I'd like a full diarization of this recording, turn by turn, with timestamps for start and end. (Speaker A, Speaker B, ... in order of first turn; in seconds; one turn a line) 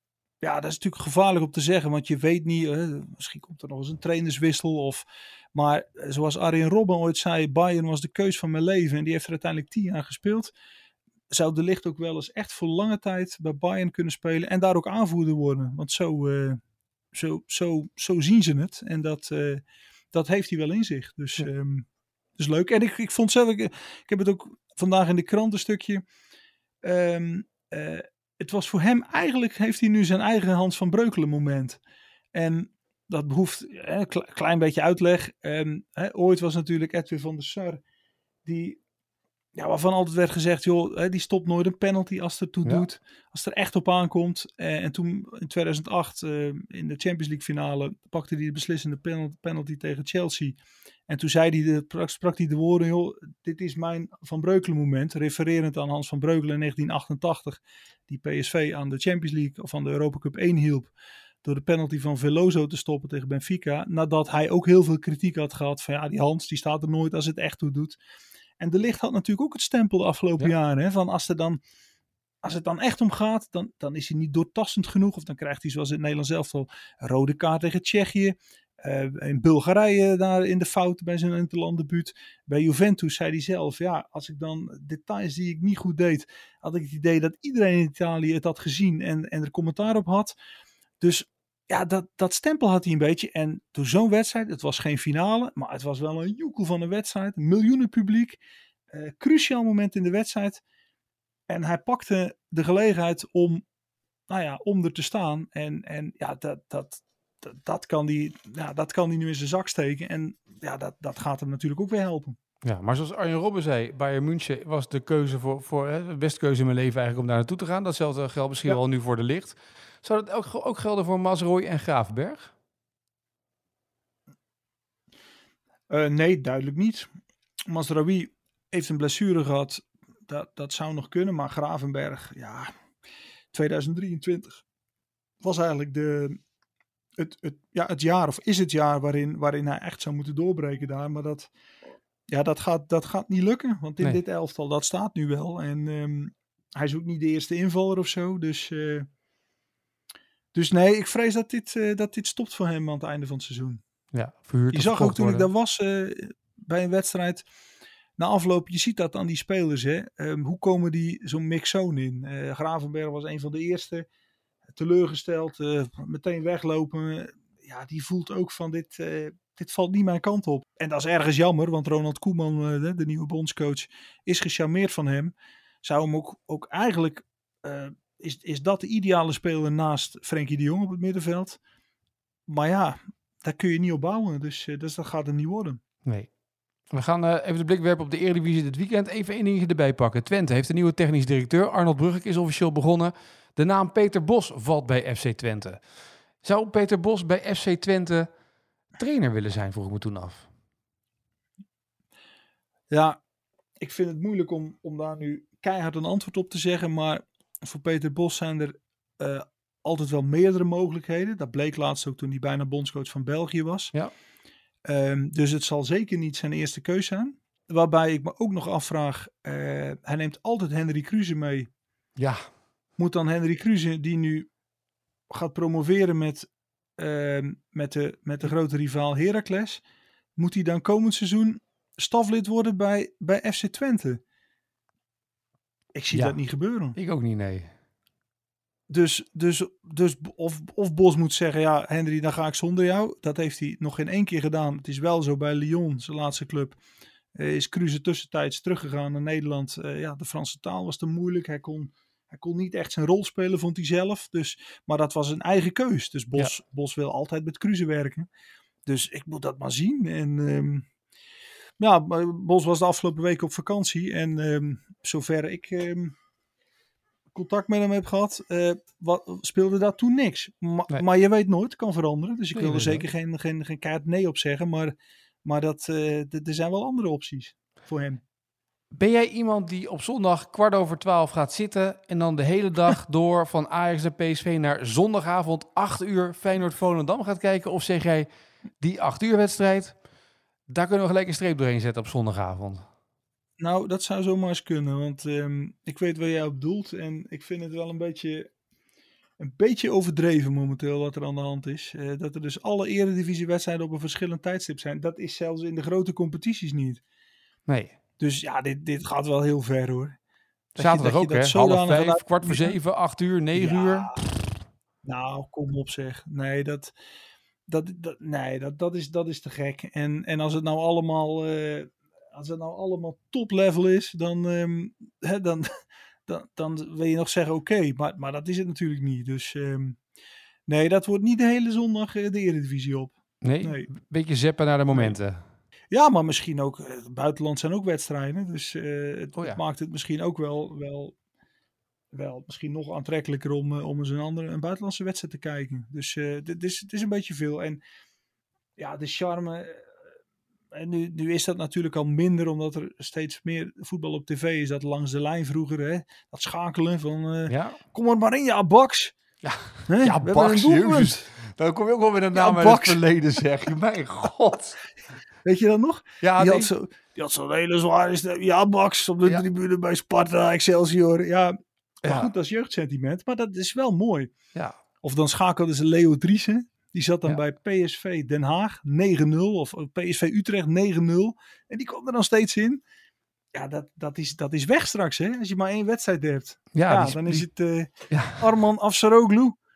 Speaker A: 0.4-10.5
Speaker A: 11.3-16.6
Speaker A: 17.1-21.9
Speaker A: 22.4-26.0
Speaker A: 26.8-31.8
Speaker A: 32.3-37.8
Speaker A: 38.4-38.8
Speaker A: 39.5-50.6
Speaker A: 51.1-68.0
Speaker A: 68.6-71.6
Speaker A: 72.4-90.3
Speaker A: 91.0-98.4
Speaker A: 98.9-100.6
Speaker A: 101.5-103.6
Speaker A: 104.3-112.4
Speaker B: 112.6-122.5
Speaker A: 125.9-127.1
Speaker A: 127.7-132.7
Speaker A: 133.5-134.6
Speaker A: 135.4-136.4
Speaker A: 137.2-141.5
Speaker A: 142.3-149.1
Speaker A: 150.5-153.8
Speaker B: 154.1-155.5
Speaker A: 154.7-157.4
Speaker A: 158.2-164.1
Speaker A: 164.7-181.6
Speaker A: 182.5-185.8
Speaker B: 186.0-186.3
Speaker B: 186.9-195.8
Speaker B: 196.4-198.3
Speaker B: 198.9-200.5
Speaker A: 202.9-203.2
Speaker A: 203.8-213.9
Speaker A: 214.9-221.7
Speaker B: 222.2-222.5
Speaker A: 223.0-224.5
Speaker A: 225.3-229.8
Speaker A: 230.4-234.2
Speaker A: 235.9-237.0
Speaker B: 236.1-236.4
Speaker B: 236.9-237.7
Speaker A: 238.9-246.8
Speaker A: 247.3-258.3
Speaker A: 258.9-260.9
Speaker A: 261.8-266.1
Speaker A: 267.3-278.2
Speaker B: 272.5-273.1
Speaker B: 278.9-288.3
Speaker B: 288.8-290.0
Speaker B: 290.7-292.8
Speaker A: 293.6-298.5
Speaker A: 299.4-307.0
Speaker B: 307.7-308.0
Speaker A: 308.2-310.2
Speaker B: 310.8-314.1
Speaker A: 310.8-312.8
Speaker A: 313.5-314.2
Speaker A: 315.0-316.9
Speaker A: 317.7-325.7
Speaker A: 326.3-330.0
Speaker A: 330.7-333.9
Speaker B: 333.4-335.4
Speaker A: 334.9-335.2
Speaker A: 335.9-341.1
Speaker A: 342.1-347.8
Speaker A: 348.8-349.9
Speaker A: 350.7-359.1
Speaker B: 357.5-357.8
Speaker B: 359.4-364.8
Speaker A: 359.9-361.3
Speaker A: 362.3-363.1
Speaker A: 365.4-374.3
Speaker B: 366.2-366.7
Speaker B: 372.0-372.3
Speaker A: 375.0-382.8
Speaker A: 383.5-389.6
Speaker B: 386.7-387.5
Speaker B: 388.1-388.5